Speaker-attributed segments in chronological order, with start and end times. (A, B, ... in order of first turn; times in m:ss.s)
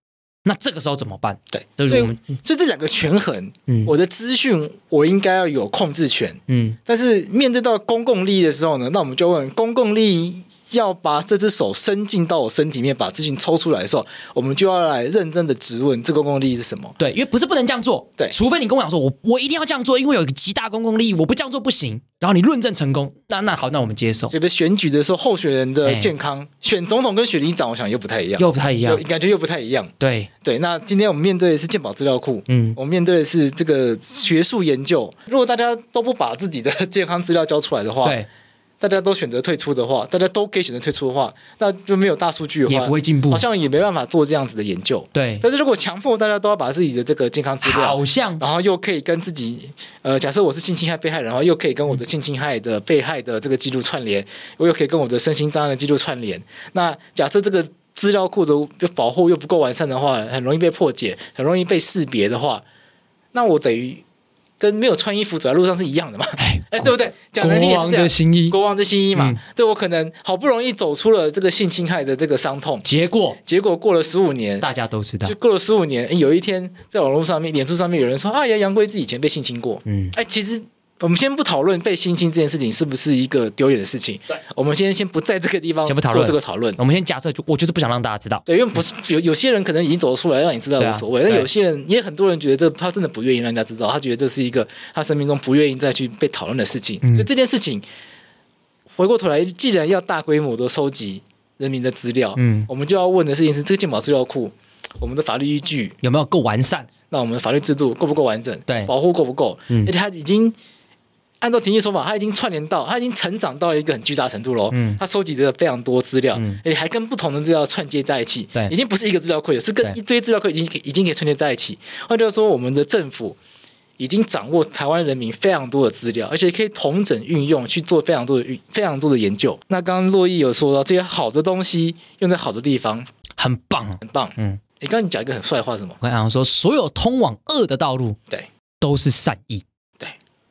0:00.4-0:02.3 A
0:01.5-0:17.0 B
0:03.7-0:03.9 A
0:06.5-0:06.8 A
0:17.0-0:24.4 A
0:24.3-0:29.9 B
0:25.8-0:26.1 A
0:28.4-0:29.0 A
0:30.0-0:30.3 A
0:30.4-0:38.2 B
0:32.5-0:32.8 A
0:38.8-1:02.6 B
0:42.7-0:43.4 A
0:45.1-0:45.4 A
0:47.6-0:48.4 A
1:03.3-1:04.0 B
1:04.6-1:12.8 B
1:06.4-1:08.6 A
1:09.2-1:09.4 A
1:12.8-1:13.4 A
1:13.4-1:14.7 B
1:14.6-1:15.4 A
1:15.3-1:26.8 B
1:19.9-1:20.2 A
1:25.8-1:28.4 A
1:28.5-1:37.8 B
1:30.8-1:31.5 A
1:37.0-1:37.3 A
1:39.0-1:46.0 B
1:42.4-1:42.7 A
1:46.0-1:46.9 A
1:47.1-1:50.6 B
1:51.4-2:03.4 B
1:54.7-1:55.0 A
1:56.3-1:56.6 A
2:04.0-2:13.1 B
2:13.4-2:14.6 A
2:14.0-2:16.0 B
2:16.0-2:18.2 A
2:18.8-2:19.6 A